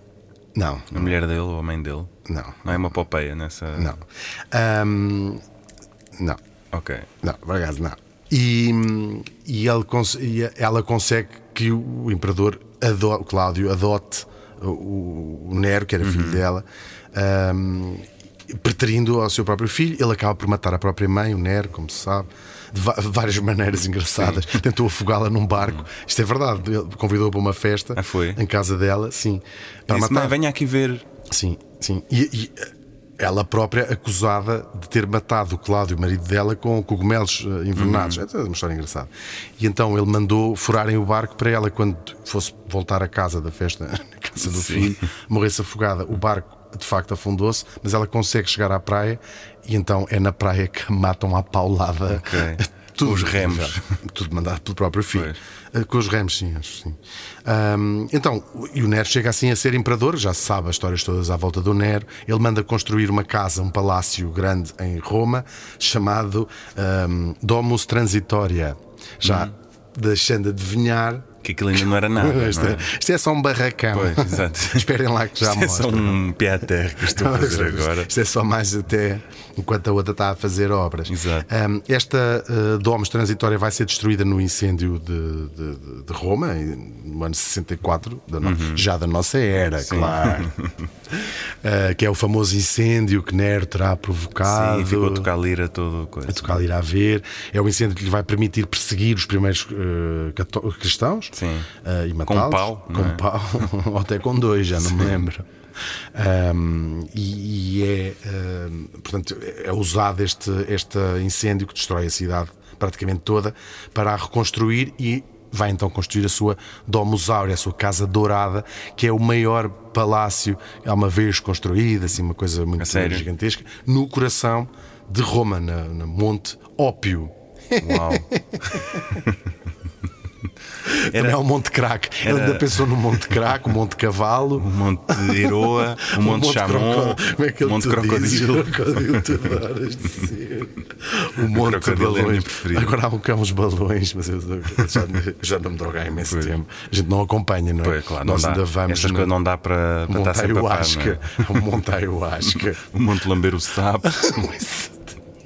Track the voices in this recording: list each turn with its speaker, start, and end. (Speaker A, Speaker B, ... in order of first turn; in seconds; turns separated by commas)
Speaker A: 0.5-1.1, Speaker B: 0.9-2.1, Speaker A: 2.2-2.9, Speaker B: 2.6-3.9, Speaker A: 3.7-5.4, Speaker B: 6.7-7.1, Speaker A: 7.2-30.4, Speaker B: 16.0-16.4, Speaker B: 24.2-24.5, Speaker B: 27.9-28.4, Speaker B: 29.9-31.1, Speaker A: 31.3-76.2, Speaker B: 37.7-38.2, Speaker B: 44.4-45.0, Speaker B: 52.1-53.8, Speaker B: 55.1-55.4, Speaker B: 69.2-69.5, Speaker B: 71.4-72.9, Speaker B: 73.9-78.1, Speaker A: 77.0-90.5, Speaker B: 81.1-81.5, Speaker B: 88.4-88.8, Speaker B: 89.8-90.9, Speaker A: 91.2-95.3, Speaker B: 94.4-96.6, Speaker A: 96.3-105.5, Speaker B: 101.3-101.7, Speaker B: 102.3-103.2, Speaker B: 104.8-105.1, Speaker A: 106.1-129.2, Speaker B: 122.8-123.3, Speaker B: 127.8-128.3, Speaker B: 129.1-129.4, Speaker A: 130.8-149.3, Speaker B: 131.1-131.4, Speaker B: 132.2-132.9, Speaker B: 134.6-139.5, Speaker B: 141.4-143.0, Speaker B: 146.2-146.5, Speaker B: 147.8-151.6, Speaker A: 150.1-152.8, Speaker B: 152.5-154.5, Speaker A: 154.0-155.2